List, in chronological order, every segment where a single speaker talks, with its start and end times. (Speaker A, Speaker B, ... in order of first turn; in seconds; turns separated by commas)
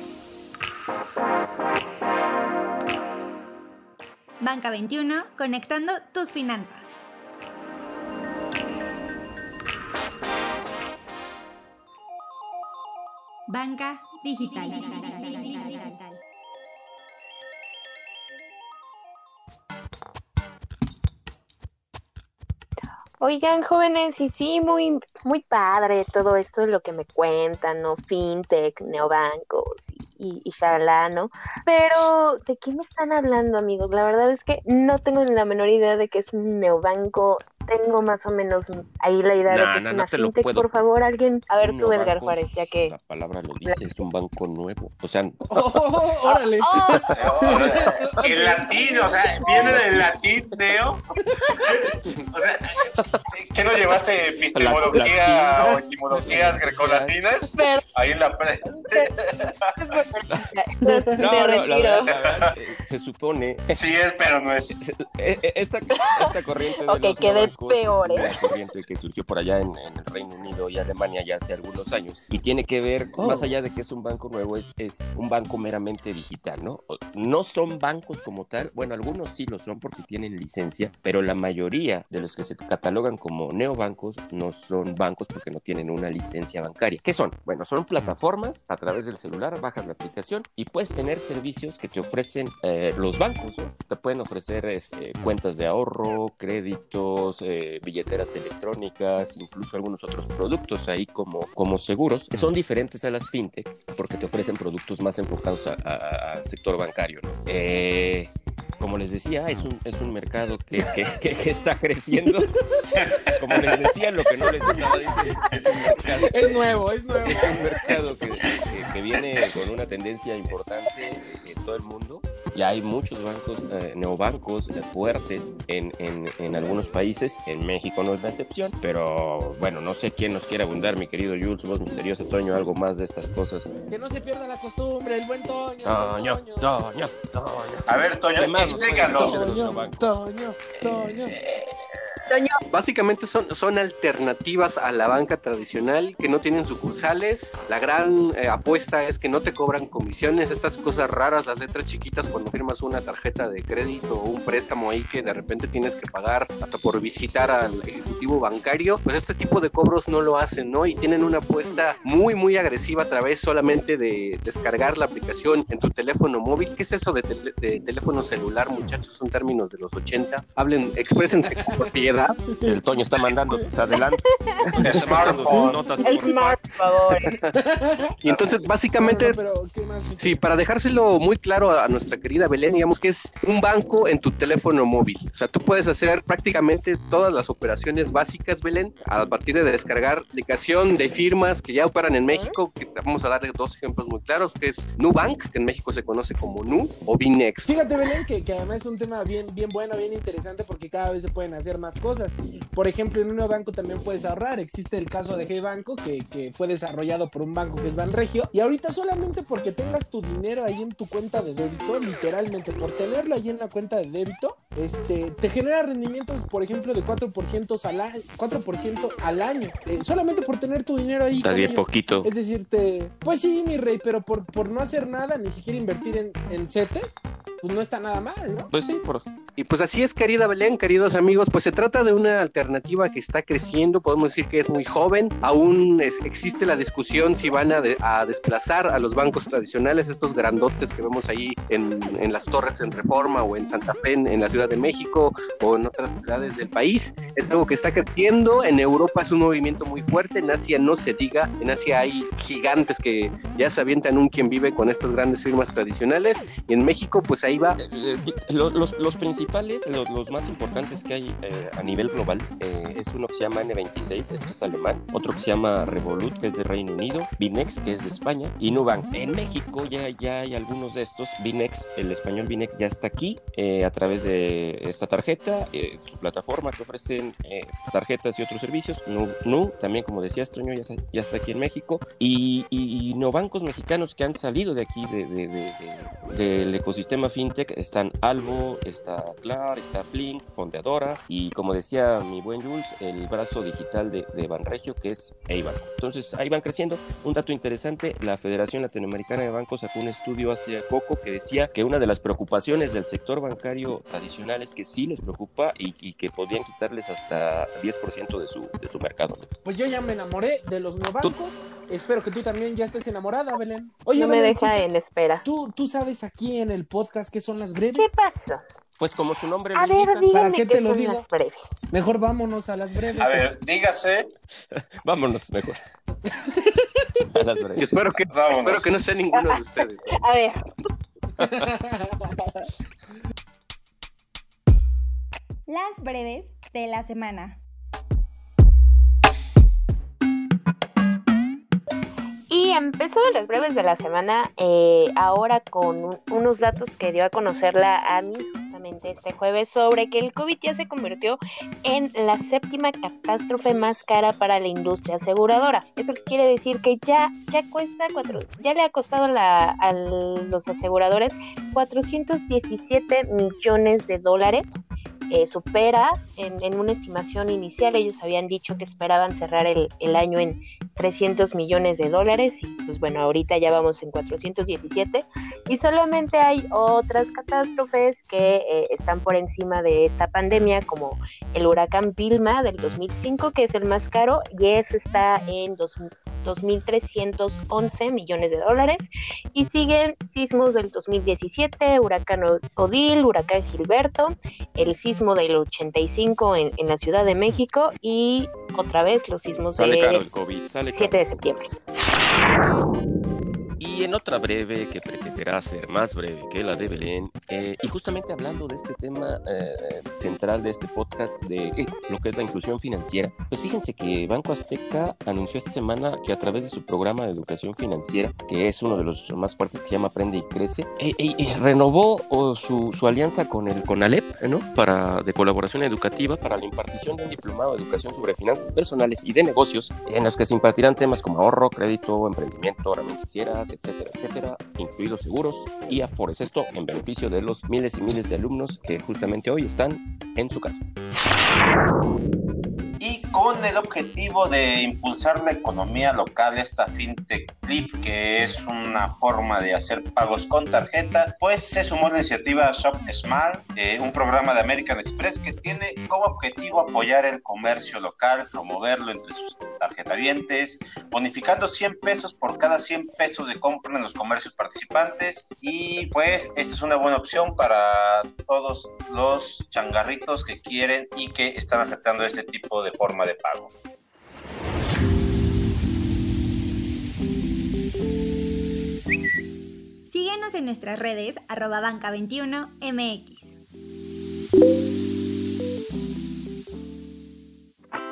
Speaker A: 4.4-7.0, Speaker A: 13.5-16.2, Speaker B: 23.2-42.9, Speaker C: 39.5-40.9, Speaker C: 41.6-45.7, Speaker D: 45.5-48.7, Speaker B: 46.3-47.1, Speaker E: 47.2-51.0, Speaker C: 47.5-47.8, Speaker B: 48.8-49.1, Speaker C: 49.5-50.1, Speaker D: 51.5-51.8, Speaker E: 51.6-52.7, Speaker E: 53.3-59.5, Speaker C: 54.5-57.1, Speaker B: 57.5-57.8, Speaker B: 58.7-59.1, Speaker B: 59.8-62.2, Speaker D: 60.8-61.2, Speaker C: 61.2-63.8, Speaker E: 62.1-62.5, Speaker E: 63.7-64.8, Speaker C: 64.8-112.5, Speaker B: 66.9-68.4, Speaker D: 73.2-73.5, Speaker E: 112.9-113.8, Speaker C: 113.4-116.6, Speaker E: 114.6-114.9, Speaker E: 115.5-116.5, Speaker D: 116.3-117.7, Speaker C: 117.3-133.8, Speaker D: 133.9-136.7, Speaker C: 135.8-140.1, Speaker E: 137.9-139.5, Speaker D: 139.1-141.4, Speaker E: 140.8-141.8, Speaker B: 142.3-142.6, Speaker F: 142.7-172.4, Speaker C: 172.6-176.6, Speaker E: 174.8-175.8, Speaker D: 175.4-175.8, Speaker B: 176.0-177.3, Speaker D: 177.3-178.1, Speaker F: 178.2-179.4, Speaker E: 178.3-178.6, Speaker D: 179.0-180.4, Speaker F: 180.2-197.7, Speaker B: 192.3-192.6, Speaker D: 197.7-228.7, Speaker C: 221.4-222.3, Speaker C: 228.7-229.3, Speaker F: 229.6-257.8, Speaker C: 257.8-309.5, Speaker D: 309.6-314.9, Speaker B: 314.1-315.4, Speaker D: 315.4-318.2, Speaker B: 318.0-318.6, Speaker C: 319.0-320.3, Speaker B: 319.8-321.7, Speaker D: 320.3-321.3, Speaker D: 321.9-323.4, Speaker E: 323.2-324.3, Speaker C: 324.7-325.8, Speaker D: 326.3-327.1, Speaker C: 327.4-328.1, Speaker F: 327.8-330.2, Speaker E: 328.3-329.3, Speaker B: 330.2-330.6, Speaker D: 331.4-332.5, Speaker A: 335.7-337.6, Speaker B: 342.5-400.2, Speaker C: 399.7-401.3, Speaker B: 400.9-401.7, Speaker C: 403.8-440.8, Speaker E: 443.0-473.7, Speaker A: 480.1-483.6